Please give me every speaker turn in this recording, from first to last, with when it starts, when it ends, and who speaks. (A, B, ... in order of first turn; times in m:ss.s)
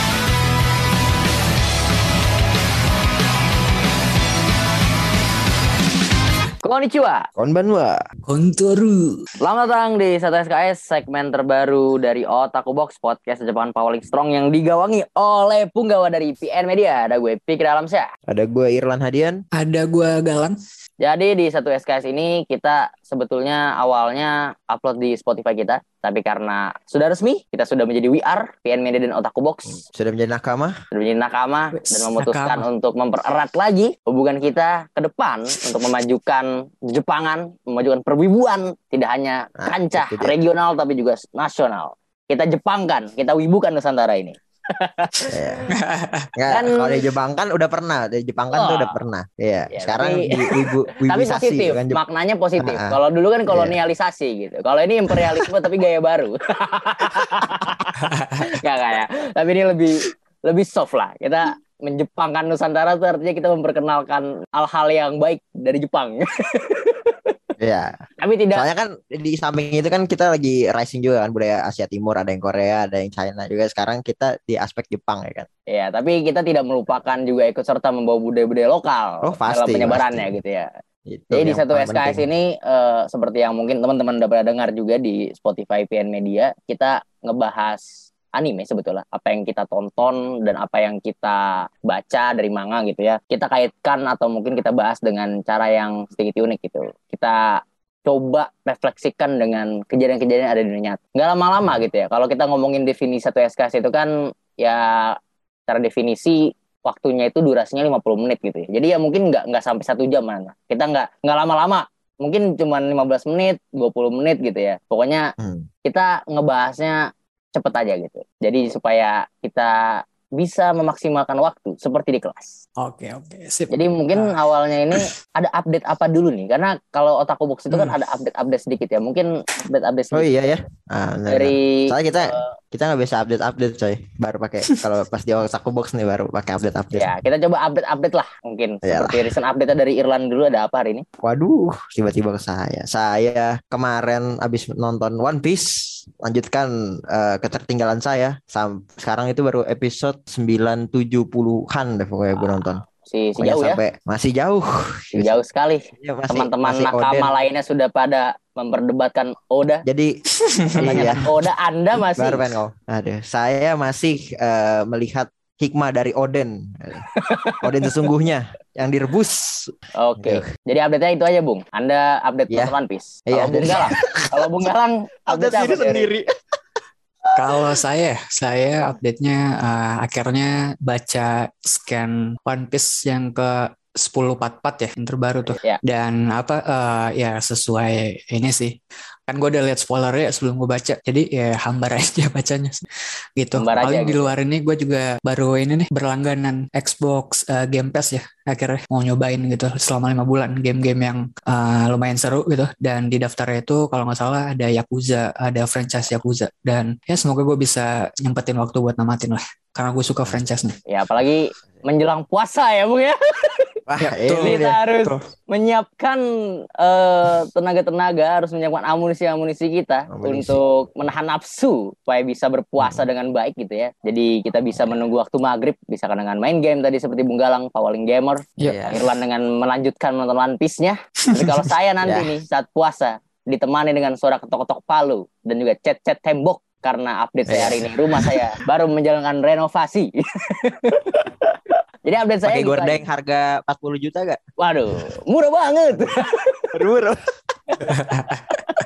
0:06.6-0:07.3 A
0:07.4-0:08.0 B
0:08.2-0:09.2 C
0:09.4-0:18.0 A
0:18.3-0:19.4 B
0:19.5-0:20.6 C
0:21.0-0:29.8 A
0:29.9-0:30.7 B
0:30.9-0:45.4 A
0:31.7-0:32.7 C
0:39.6-0:40.3 B
0:45.3-0:45.6 B
0:45.7-0:46.3 C
0:46.4-0:52.0 B
0:46.5-0:47.1 A
0:48.5-0:49.0 A
0:49.7-0:50.4 A
0:51.0-1:07.3 A
0:52.6-0:53.8 B
0:55.1-0:55.5 B
0:58.0-0:58.4 C
1:07.6-1:08.0 B
1:08.2-1:08.7 A
1:08.5-1:15.5 B
1:15.7-1:20.7 A
1:19.2-1:20.4 B
1:21.1-1:22.3 B
1:21.3-1:45.1 A
1:45.7-1:55.3 A
1:55.4-1:55.6 B
1:55.8-1:57.0 A
1:57.5-2:02.6 A
2:02.8-2:04.3 C
2:03.7-2:10.3 A
2:07.7-2:08.0 C
2:10.1-2:17.1 B
2:11.3-2:12.5 A
2:16.9-2:21.0 A
2:18.8-2:19.3 B
2:21.2-2:32.8 B
2:32.4-2:33.8 A
2:33.4-2:35.4 B
2:35.1-2:39.8 A
2:36.0-2:37.3 B
2:39.8-2:40.1 B
2:40.7-2:41.3 B
2:40.8-2:41.1 C
2:40.8-2:42.5 A
2:42.1-2:47.0 B
2:47.1-2:48.0 A
2:47.6-2:50.5 B
2:50.0-2:56.1 A
2:53.3-2:54.3 B
2:55.3-2:56.2 B
2:57.4-3:08.7 C
3:05.5-3:05.8 A
3:09.3-3:12.8 C
3:13.4-3:30.7 C
3:13.5-3:14.3 A
3:30.9-3:33.7 A
3:33.9-3:34.8 B
3:34.0-3:35.2 C
3:34.4-3:36.2 A
3:36.8-4:01.2 A
3:40.1-3:40.6 B
3:48.6-3:49.0 C
3:48.6-3:49.0 B
3:52.0-3:52.3 B
3:57.5-3:58.4 B
4:02.0-4:03.0 A
4:02.4-4:04.4 B
4:04.6-4:06.7 A
4:06.7-4:07.2 B
4:07.8-4:08.4 C